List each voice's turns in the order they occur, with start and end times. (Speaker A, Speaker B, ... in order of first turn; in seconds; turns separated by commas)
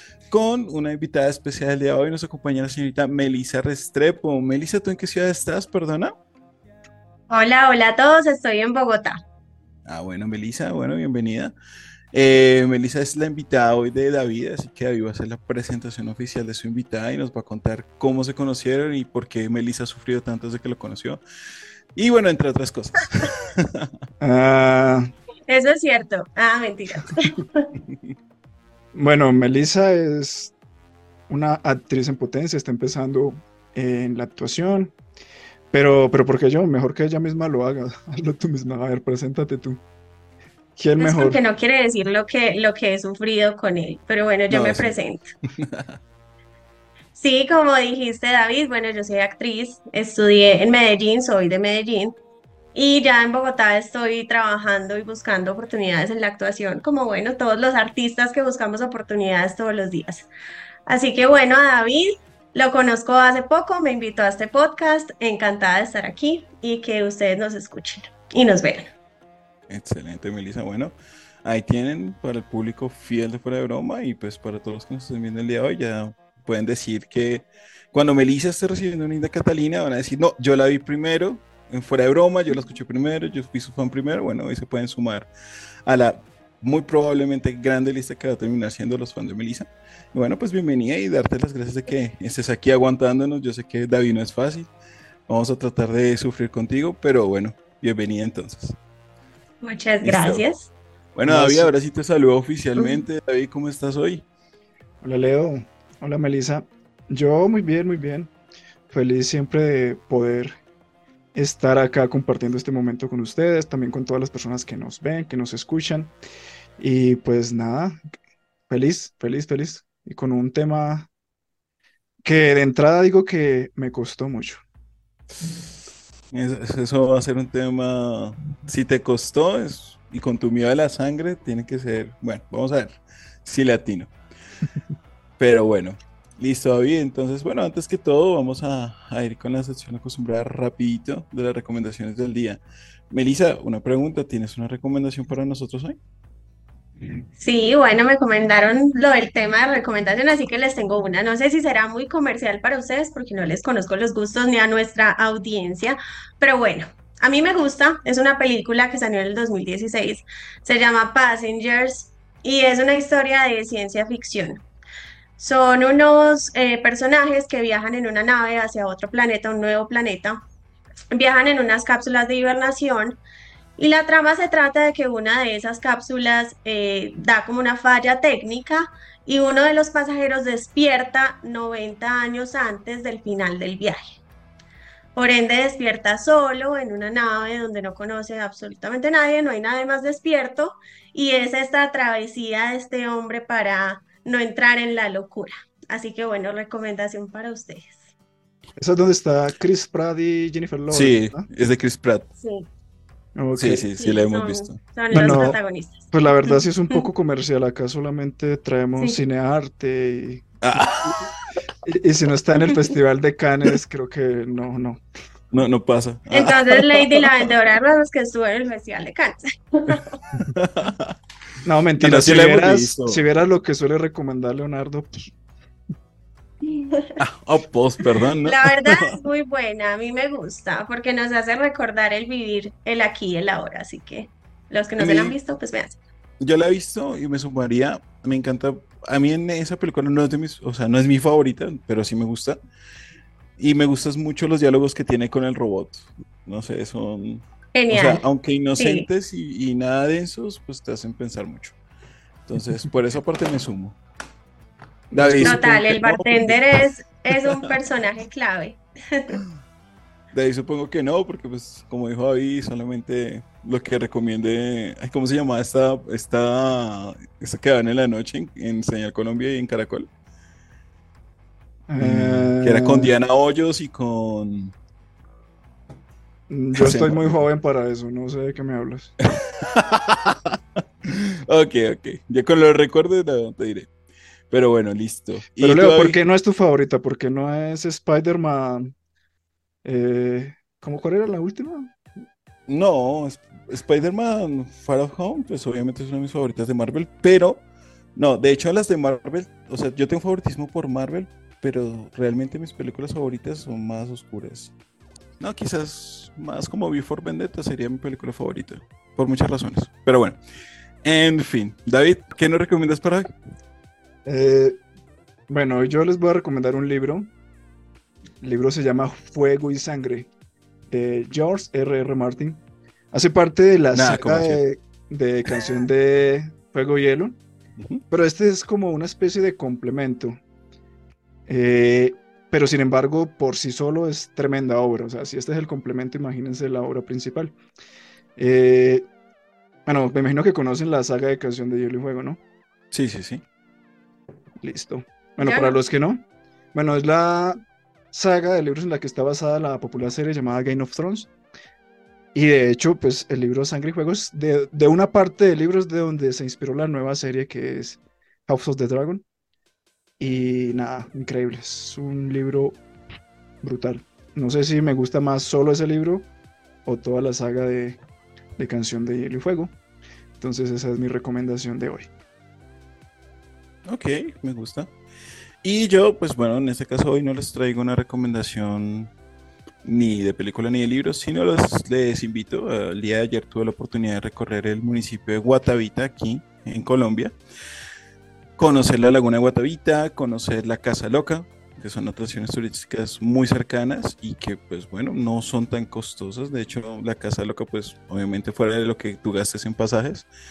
Speaker A: 0.3-6.2, Speaker B: 7.3-9.2, Speaker A: 9.9-11.5, Speaker A: 12.1-21.2, Speaker A: 21.9-23.9, Speaker C: 24.2-25.1, Speaker B: 25.5-27.6, Speaker C: 28.9-30.5, Speaker C: 31.3-34.9, Speaker C: 35.7-39.8, Speaker C: 40.8-41.4, Speaker B: 41.0-45.3, Speaker A: 44.5-45.0, Speaker A: 45.6-46.0, Speaker B: 47.2-52.1, Speaker B: 52.8-60.3, Speaker B: 60.9-68.9, Speaker A: 69.7-85.3, Speaker A: 85.8-94.7, Speaker A: 95.3-98.8, Speaker B: 99.6-100.7, Speaker A: 100.0-100.5, Speaker A: 101.2-104.2, Speaker C: 101.2-101.7, Speaker C: 105.0-108.3, Speaker C: 108.9-110.6, Speaker C: 111.3-116.1, Speaker C: 116.8-118.0, Speaker C: 118.7-121.1, Speaker C: 122.2-124.6, Speaker A: 126.3-134.1, Speaker A: 135.4-146.0, Speaker B: 147.4-164.6, Speaker B: 165.4-170.4, Speaker B: 171.1-173.2, Speaker B: 173.8-184.0, Speaker B: 185.2-198.1, Speaker C: 198.8-201.5, Speaker A: 200.9-202.3, Speaker B: 202.4-202.7, Speaker C: 203.4-203.9, Speaker A: 203.6-205.4, Speaker B: 204.0-207.1, Speaker C: 205.1-205.6, Speaker C: 206.1-211.2, Speaker A: 210.6-211.3, Speaker C: 211.8-215.0, Speaker A: 215.5-217.3, Speaker B: 216.3-220.2, Speaker A: 220.5-221.2, Speaker C: 221.6-225.3, Speaker A: 222.0-223.2, Speaker B: 226.7-227.1, Speaker A: 227.2-229.2, Speaker B: 228.4-236.0, Speaker A: 235.0-235.4, Speaker A: 236.4-242.6, Speaker A: 243.6-251.8, Speaker B: 247.8-248.2, Speaker B: 248.8-249.1, Speaker A: 252.5-254.0, Speaker C: 255.1-255.6, Speaker A: 255.2-256.6, Speaker B: 255.4-259.4, Speaker A: 257.3-257.7, Speaker A: 260.3-270.1, Speaker C: 271.9-273.1, Speaker A: 272.0-274.8, Speaker C: 276.5-279.1, Speaker A: 276.8-277.4, Speaker A: 279.4-283.9, Speaker A: 284.5-286.2, Speaker C: 285.6-288.9, Speaker C: 289.8-291.9, Speaker A: 292.7-297.6, Speaker A: 298.2-304.7, Speaker A: 305.4-310.4, Speaker A: 311.0-313.3, Speaker C: 314.3-314.8, Speaker C: 315.5-317.3, Speaker C: 318.4-320.3, Speaker C: 320.9-322.6, Speaker C: 323.1-327.4, Speaker A: 323.9-324.6, Speaker A: 327.8-328.0, Speaker C: 328.1-330.4, Speaker C: 331.5-337.5, Speaker C: 338.4-339.1, Speaker C: 339.9-342.4, Speaker A: 342.9-343.4, Speaker C: 344.6-346.2, Speaker B: 345.4-345.8, Speaker C: 346.7-347.6, Speaker C: 348.1-351.3, Speaker C: 352.3-359.2, Speaker C: 360.2-362.8, Speaker C: 363.6-366.3, Speaker C: 366.9-368.0, Speaker C: 368.6-369.7, Speaker C: 370.4-372.1, Speaker A: 373.9-374.9, Speaker A: 375.6-379.1, Speaker A: 379.8-387.4, Speaker A: 388.6-400.3